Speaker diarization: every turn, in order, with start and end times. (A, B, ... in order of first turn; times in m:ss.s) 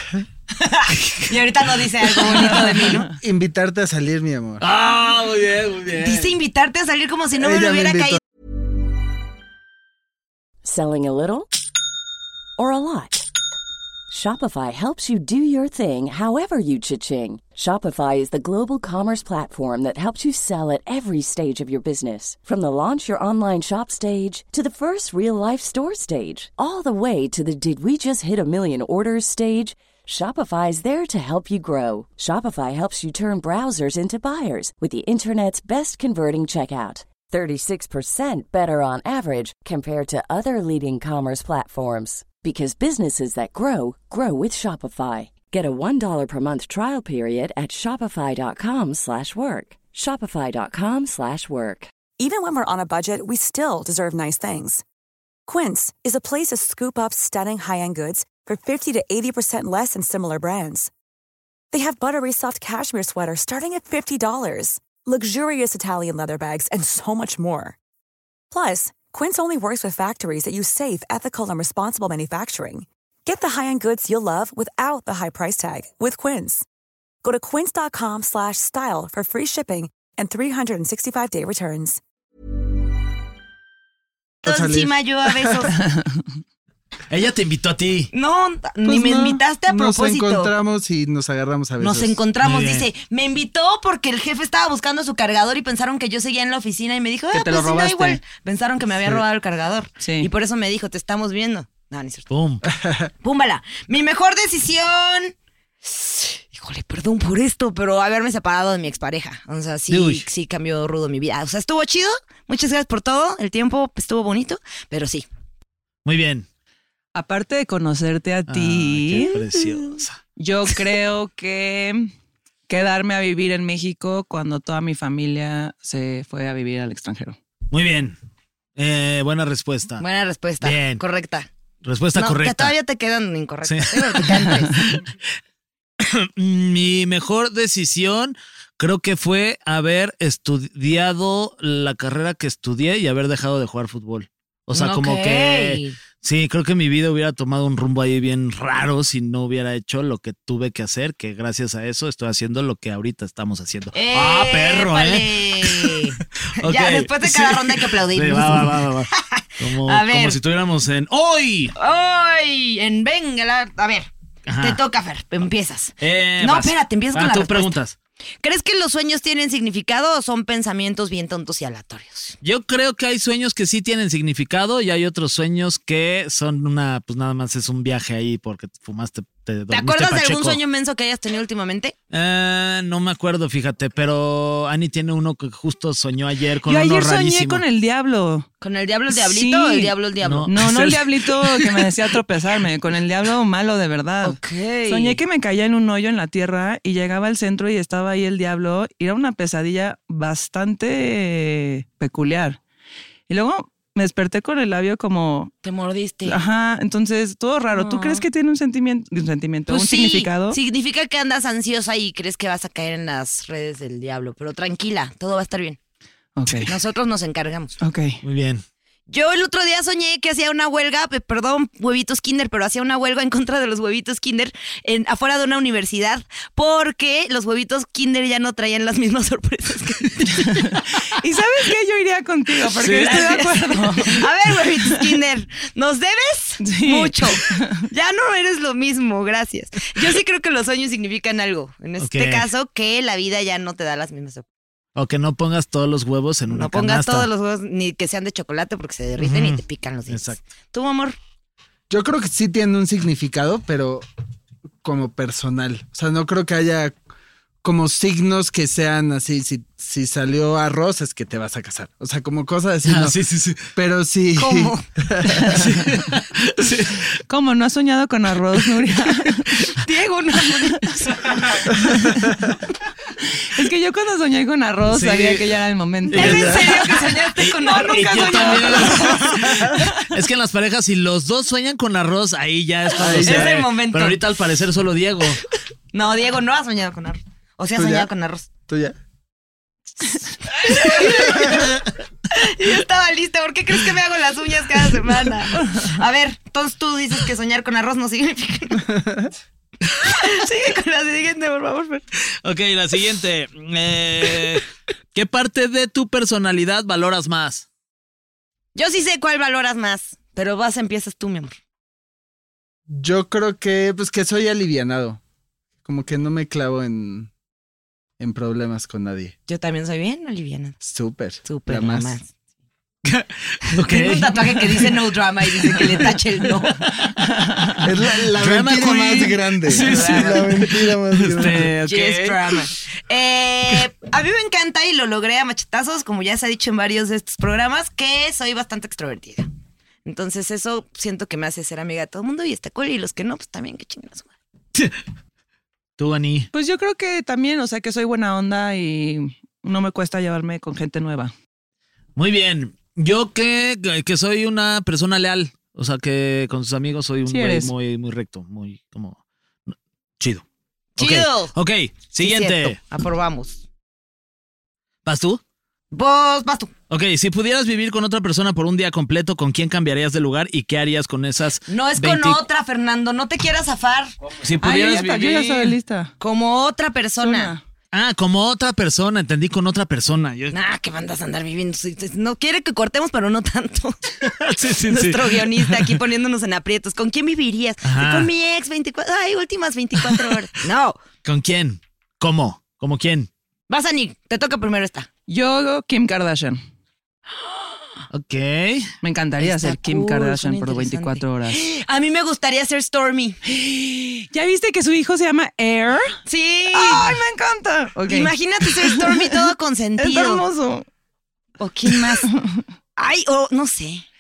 0:00.5-0:03.1 A
0:00.9-0:01.4 B
0:03.2-0:04.6 C
0:04.6-0:06.3 B
0:06.0-0:08.2 A
0:07.4-0:08.2 C
0:10.6-0:11.5 D
0:12.6-0:13.3 D
0:14.1-0:51.9 D
0:52.2-0:54.8 E
0:55.5-1:00.9 E
1:01.7-1:07.8 E
1:08.5-1:16.7 E
1:17.2-1:22.0 E
1:24.4-1:25.7 C
1:24.4-1:25.8 A
1:25.8-1:26.0 F
1:27.1-1:28.1 B
1:28.1-1:30.5 A
1:28.8-1:32.2 C
1:31.8-1:42.3 A
1:32.4-1:32.9 B
1:37.9-1:38.1 F
1:40.0-1:40.3 F
1:42.3-1:42.6 B
1:42.6-1:43.1 C
1:43.2-1:55.3 A
1:49.9-1:50.3 B
1:56.0-1:56.5 B
1:57.2-1:59.4 F
1:58.5-2:00.2 B
2:00.4-2:02.1 F
2:02.7-2:07.4 F
2:07.7-2:08.2 B
2:08.8-2:10.0 B
2:10.0-2:11.5 A
2:10.6-2:11.0 B
2:11.8-2:12.8 B
2:12.2-2:15.0 A
2:13.6-2:15.1 B
2:16.0-2:41.7 B
2:24.7-2:26.0 A
2:33.9-2:40.4 A
2:41.8-2:47.8 A
2:44.5-2:44.8 B
2:46.0-2:48.0 B
2:48.4-2:52.4 A
2:52.4-3:00.6 B
2:59.7-3:02.0 A
3:02.1-3:07.6 B
3:06.7-3:08.5 F
3:08.6-3:10.5 A
3:09.1-3:09.9 F
3:10.2-3:11.8 B
3:10.5-3:22.6 F
3:14.2-3:15.2 A
3:23.3-3:25.5 F
3:25.6-3:26.4 A
3:26.3-3:30.6 F
3:27.7-3:28.2 A
3:29.7-3:35.8 A
3:36.4-3:36.7 F
3:36.6-3:37.8 A
3:37.8-3:38.2 F
3:38.2-3:38.6 B
3:39.1-3:50.5 A
3:50.3-3:54.3 F
3:52.8-3:53.3 B
3:52.9-4:04.4 A
3:56.6-3:57.8 F
4:02.0-4:02.5 B
4:05.0-4:07.3 B
4:06.5-4:11.2 A
4:09.2-4:10.4 B
4:11.9-4:14.0 C
4:14.8-4:17.0 C
4:17.6-4:23.2 C
4:22.8-4:23.6 B
4:23.7-4:25.7 C
4:24.4-4:24.8 A
4:25.5-4:27.1 B
4:27.3-4:29.7 F
4:29.8-4:31.6 A
4:30.4-4:30.9 F
4:31.8-4:32.3 F
4:33.2-4:39.9 F
4:34.9-4:35.5 B
4:36.1-4:36.8 B
4:36.1-4:39.5 A
4:36.2-4:36.5 C
4:37.4-4:45.4 B
4:43.0-4:43.6 C
4:43.1-4:44.2 A
4:45.9-4:48.5 A
4:47.8-4:48.1 C
4:48.7-4:49.0 C
4:50.5-4:58.9 A
5:00.0-5:02.0 A
5:02.4-5:04.6 B
5:05.2-5:07.7 B
5:08.8-5:11.6 A
5:12.9-5:15.2 C
5:15.8-5:17.3 C
5:18.2-5:19.4 C
5:19.5-5:20.8 A
5:20.8-5:22.2 C
5:21.4-5:22.3 A
5:23.0-5:24.9 B
5:23.8-5:26.8 A
5:25.6-5:26.2 B
5:27.3-5:27.7 F
5:27.8-5:31.7 C
5:27.8-5:32.6 B
5:29.7-5:30.5 A
5:31.8-5:39.5 A
5:40.0-5:44.3 A
5:46.0-5:46.5 B
5:46.5-5:51.3 F
5:52.2-6:00.4 B
5:57.3-5:57.7 F
6:01.0-6:01.5 A
6:01.0-6:02.8 B
6:02.2-6:03.6 A
6:05.0-6:05.4 B
6:05.9-6:06.7 A
6:06.9-6:12.4 B
6:11.7-6:14.1 A
6:14.4-6:15.8 B
6:14.6-6:16.1 F
6:16.2-6:17.5 A
6:17.2-6:17.6 F
6:17.9-6:20.6 B
6:20.5-6:31.0 A
6:24.2-6:26.0 B
6:27.8-6:28.3 B
6:30.1-6:30.4 B
6:31.2-6:33.3 B
6:33.7-6:35.1 A
6:35.3-6:36.6 F
6:38.1-6:38.9 B
6:39.0-6:41.6 F
6:39.4-6:43.4 A
6:43.4-6:46.2 F
6:46.3-6:47.2 A
6:46.7-6:49.5 F
6:48.1-6:50.4 A
6:50.0-6:50.9 F
6:51.6-6:52.3 A
6:51.9-6:52.6 F
6:53.0-6:54.0 A